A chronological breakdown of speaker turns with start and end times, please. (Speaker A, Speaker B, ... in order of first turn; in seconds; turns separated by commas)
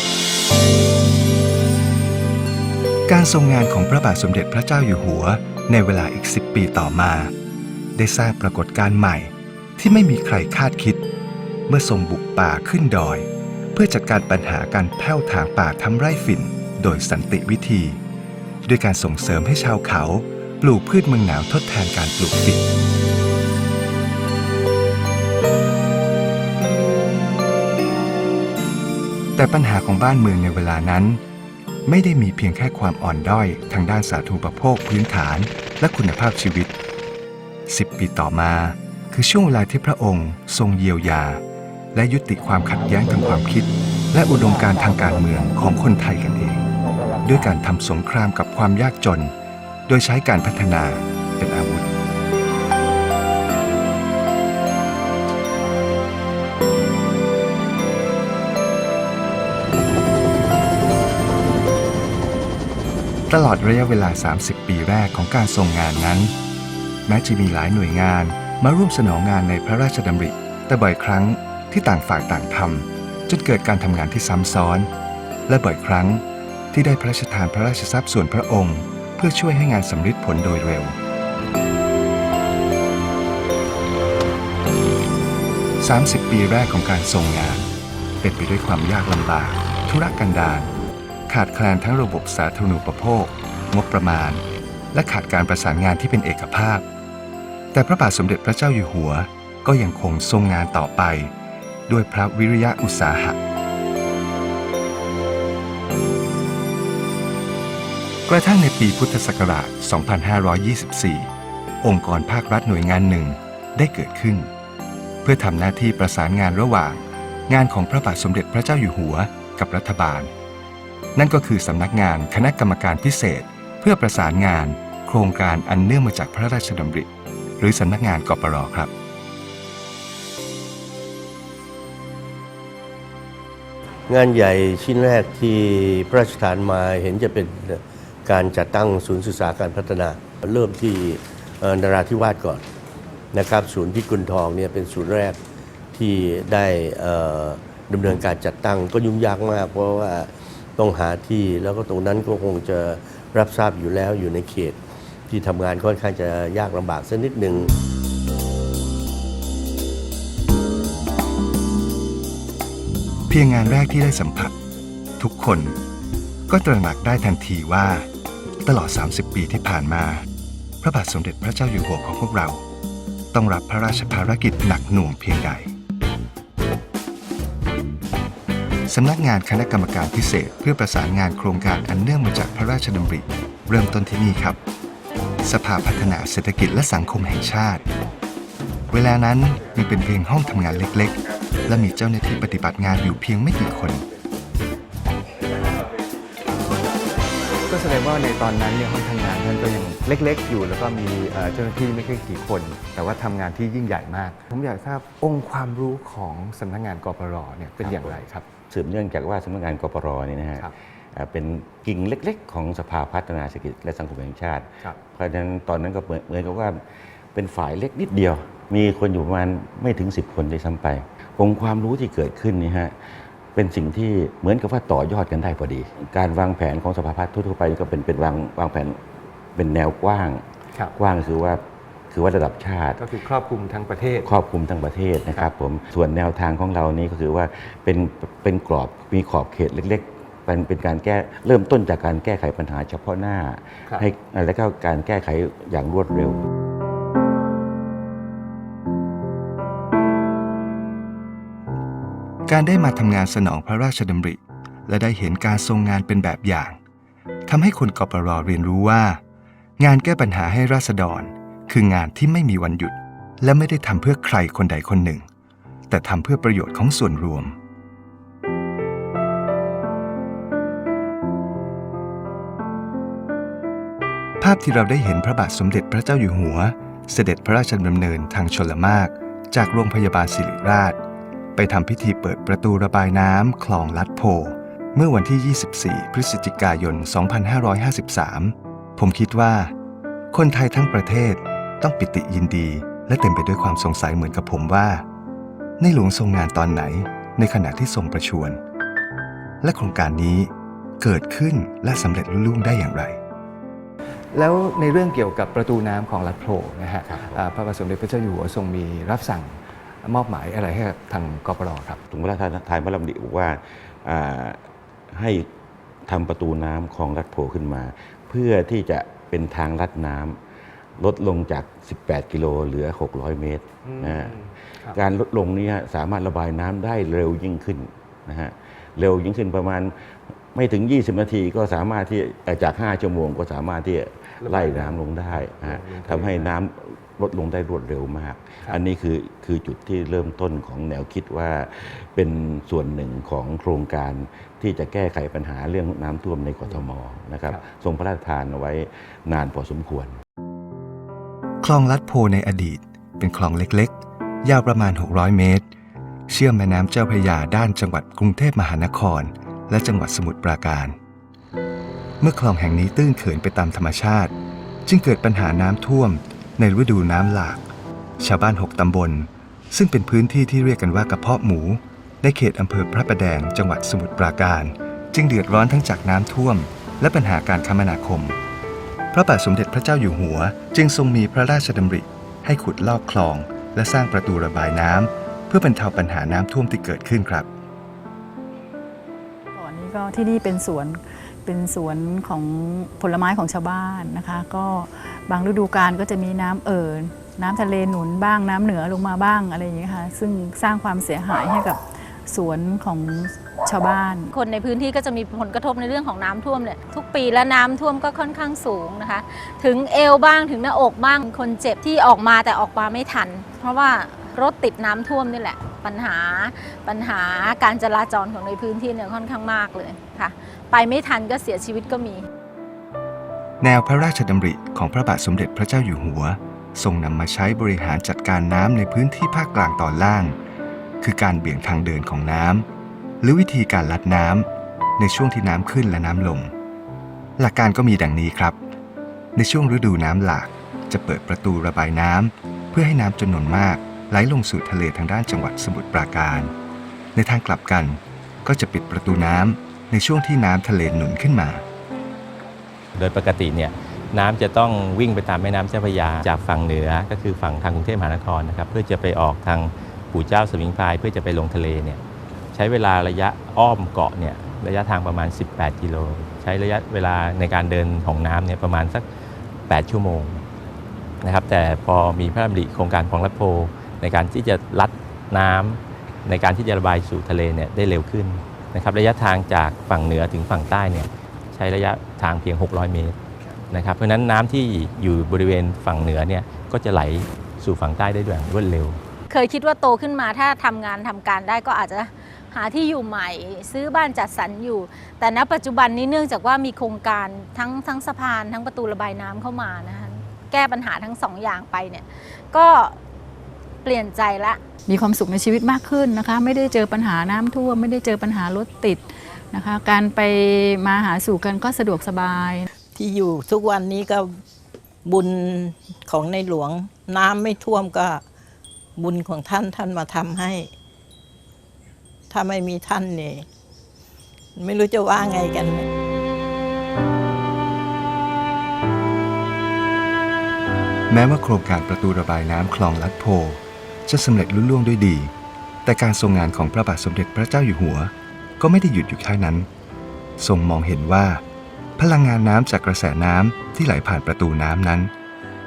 Speaker A: 3.1-7.3, Speaker A: 8.0-11.0, Speaker A: 11.7-18.0, Speaker A: 18.6-22.7, Speaker A: 29.4-31.2, Speaker A: 31.9-36.7, Speaker A: 37.7-41.4, Speaker A: 41.9-46.7, Speaker A: 47.2-49.3, Speaker A: 49.9-51.9, Speaker A: 63.3-66.3, Speaker A: 67.1-74.9, Speaker A: 75.5-81.0, Speaker A: 85.8-87.7, Speaker A: 88.2-90.7, Speaker A: 91.3-96.9, Speaker A: 97.7-101.3, Speaker A: 101.9-103.4, Speaker A: 108.3-111.3, Speaker A: 111.8-114.5, Speaker A: 115.2-120.3, Speaker A: 121.2-127.1, Speaker A: 127.6-128.9, Speaker B: 134.1-142.6, Speaker B: 143.3-145.4, Speaker B: 145.9-154.8, Speaker B: 155.3-157.7, Speaker A: 163.3-164.6, Speaker A: 165.2-165.8, Speaker A: 166.5-168.1, Speaker A: 168.6-170.2, Speaker A: 170.8-172.6, Speaker A: 173.3-175.7, Speaker A: 178.9-184.6, Speaker A: 185.4-187.8, Speaker A: 188.9-194.0, Speaker C: 197.7-208.5, Speaker D: 207.8-208.2, Speaker D: 208.7-229.0, Speaker D: 229.6-230.4, Speaker D: 230.9-233.1, Speaker C: 233.0-234.3, Speaker D: 234.2-246.4, Speaker A: 252.5-256.8, Speaker A: 257.5-259.2, Speaker A: 259.8-265.2, Speaker A: 265.9-267.6, Speaker A: 274.4-281.0, Speaker A: 281.6-289.7, Speaker A: 290.3-295.0, Speaker A: 295.8-298.6, Speaker A: 299.6-303.2, Speaker C: 304.3-312.0, Speaker D: 307.1-307.4, Speaker D: 312.1-315.5, Speaker D: 316.1-320.4, Speaker D: 321.0-330.0, Speaker C: 323.9-325.0, Speaker D: 330.5-350.2, Speaker C: 334.4-336.5, Speaker A: 351.6-355.7, Speaker A: 356.3-361.0, Speaker A: 362.2-364.3, Speaker A: 364.9-367.7, Speaker A: 368.2-378.4, Speaker A: 379.1-387.5, Speaker E: 389.6-404.3, Speaker F: 404.3-422.3, Speaker A: 423.6-430.4, Speaker A: 431.0-432.7, Speaker A: 433.2-434.5, Speaker A: 435.0-436.5, Speaker A: 437.4-438.6, Speaker A: 439.4-446.5, Speaker A: 447.1-451.6, Speaker G: 453.0-462.0, Speaker G: 462.5-469.1, Speaker G: 469.7-470.4, Speaker G: 471.2-483.1, Speaker G: 483.7-489.0, Speaker F: 489.3-503.0, Speaker F: 503.8-504.6, Speaker E: 504.9-512.7, Speaker H: 513.0-514.4, Speaker H: 515.0-518.2, Speaker H: 519.0-520.7, Speaker H: 522.3-523.5, Speaker H: 524.6-525.9, Speaker A: 531.1-535.3, Speaker A: 535.9-539.7, Speaker A: 540.4-541.4, Speaker A: 542.0-545.1